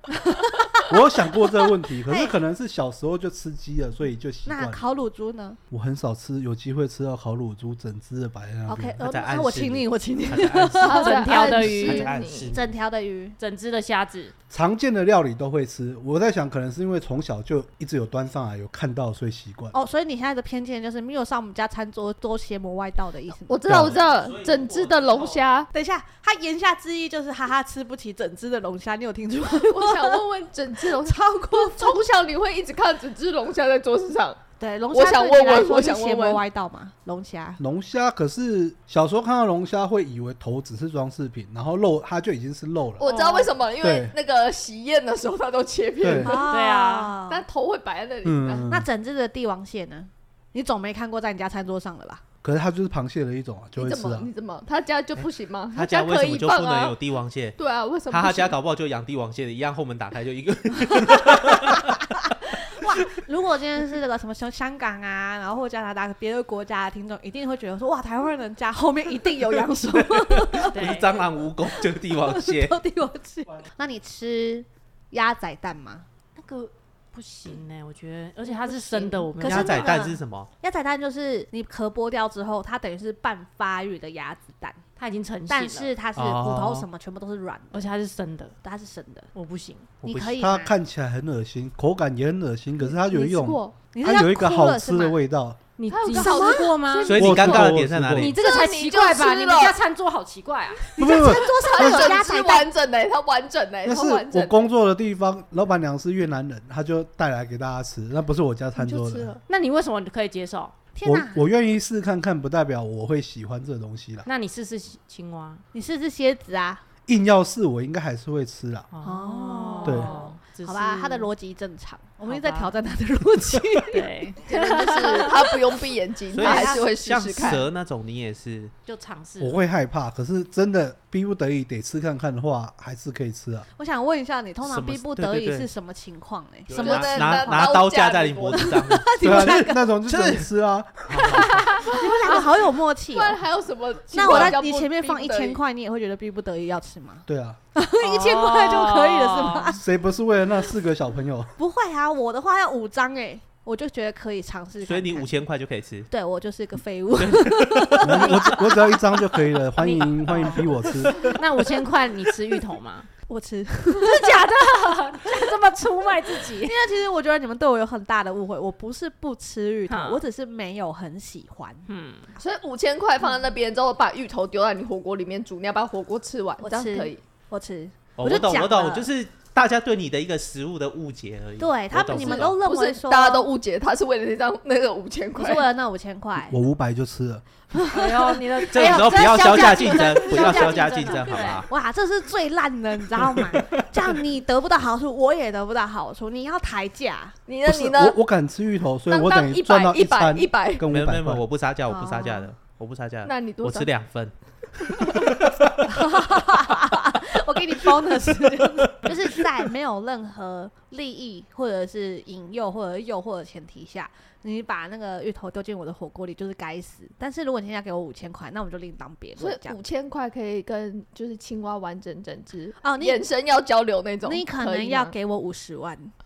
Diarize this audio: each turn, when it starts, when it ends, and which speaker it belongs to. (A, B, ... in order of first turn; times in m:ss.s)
0:00.1-0:02.4 A
0:00.9-0:04.9 B
0:04.4-0:05.6 A
0:05.7-0:09.0 B
0:08.7-0:11.3 A
0:09.0-0:12.7 C
0:10.8-0:12.5 D
0:10.9-0:12.1 E
0:12.5-0:13.4 A
0:13.4-0:14.3 E
0:14.5-0:19.8 B
0:19.7-0:23.7 A
0:23.5-0:25.7 D
0:23.7-0:24.0 B
0:23.7-0:25.4 C
0:25.7-0:30.2 A
0:29.6-0:34.4 D
0:30.8-0:32.0 A
0:34.6-0:37.6 A
0:34.9-0:36.4 D
0:37.6-0:43.1 B
0:43.0-0:46.5 D
0:43.0-0:43.5 E
0:43.8-0:44.1 B
0:46.0-0:46.4 B
0:46.2-0:47.4 A
0:46.5-0:47.2 E
0:47.3-0:48.7 D
0:48.2-0:48.9 B
0:48.6-0:52.2 A
0:52.4-0:54.3 B
0:53.8-0:57.0 D
0:55.2-0:57.6 C
0:57.6-0:58.6 D
0:58.1-1:02.0 C
1:00.9-1:01.8 A
1:02.7-1:11.0 A
1:10.0-1:12.8 C
1:10.7-1:11.1 E
1:11.8-1:16.1 A
1:16.4-1:19.9 E
1:18.5-1:24.8 A
1:19.4-1:20.5 C
1:25.0-1:25.9 E
1:25.5-1:27.9 A
1:26.2-1:26.9 C
1:27.7-1:28.6 E
1:28.6-1:29.3 A
1:29.3-1:29.9 E
1:30.0-1:30.4 C
1:30.0-1:30.7 A
1:30.3-1:35.6 B
1:32.8-1:33.8 D
1:33.9-1:35.2 A
1:35.8-1:37.3 E
1:35.9-1:37.7 D
1:36.1-1:36.7 A
1:37.0-1:38.3 C
1:37.1-1:38.4 B
1:38.2-1:40.9 E
1:38.2-1:39.8 D
1:41.0-1:42.7 A
1:41.0-1:42.2 B
1:41.0-1:44.7 D
1:43.8-1:49.4 B
1:48.8-1:49.4 D
1:49.5-1:50.7 E
1:50.9-1:51.5 A
1:51.0-1:54.2 B
1:54.2-1:55.6 E
1:55.7-1:56.8 A
1:57.1-1:58.9 B
1:58.9-2:01.3 E
1:59.0-2:05.5 A
1:59.8-2:00.1 B
2:02.2-2:02.7 E
2:03.9-2:05.5 E
2:04.4-2:07.7 D
2:06.3-2:08.7 C
2:06.4-2:06.9 A
2:08.9-2:09.6 E
2:09.4-2:13.7 B
2:13.8-2:17.8 A
2:14.6-2:15.7 C
2:16.7-2:20.5 C
2:16.7-2:18.8 D
2:18.6-2:19.9 A
2:19.2-2:21.6 B
2:21.1-2:21.7 C
2:21.8-2:22.4 D
2:21.8-2:23.4 A
2:23.1-2:25.6 D
2:24.1-2:29.8 A
2:27.3-2:27.6 B
2:28.0-2:29.8 E
2:29.8-2:31.5 B
2:31.6-2:35.3 A
2:34.8-2:36.1 C
2:36.1-2:39.0 A
2:37.2-2:38.7 C
2:38.0-2:41.3 B
2:39.8-2:43.1 E
2:40.5-2:41.3 C
2:43.3-2:44.5 A
2:44.0-2:46.8 E
2:46.5-2:51.9 A
2:49.9-2:50.2 E
2:51.9-2:52.3 E
2:52.4-2:57.2 D
2:56.6-2:59.1 A
2:58.2-3:02.6 C
3:01.6-3:03.5 A
3:02.1-3:05.7 D
3:05.4-3:06.6 A
3:06.5-3:07.4 B
3:07.9-3:11.7 E
3:08.7-3:11.7 C
3:08.8-3:17.4 A
3:13.4-3:13.8 C
3:17.5-3:18.2 D
3:17.6-3:21.4 B
3:19.1-3:20.9 D
3:20.9-3:25.6 C
3:21.9-3:22.5 A
3:23.2-3:23.9 D
3:25.8-3:39.8 A
3:39.4-3:45.1 D
3:42.8-3:43.2 A
3:44.2-3:46.1 A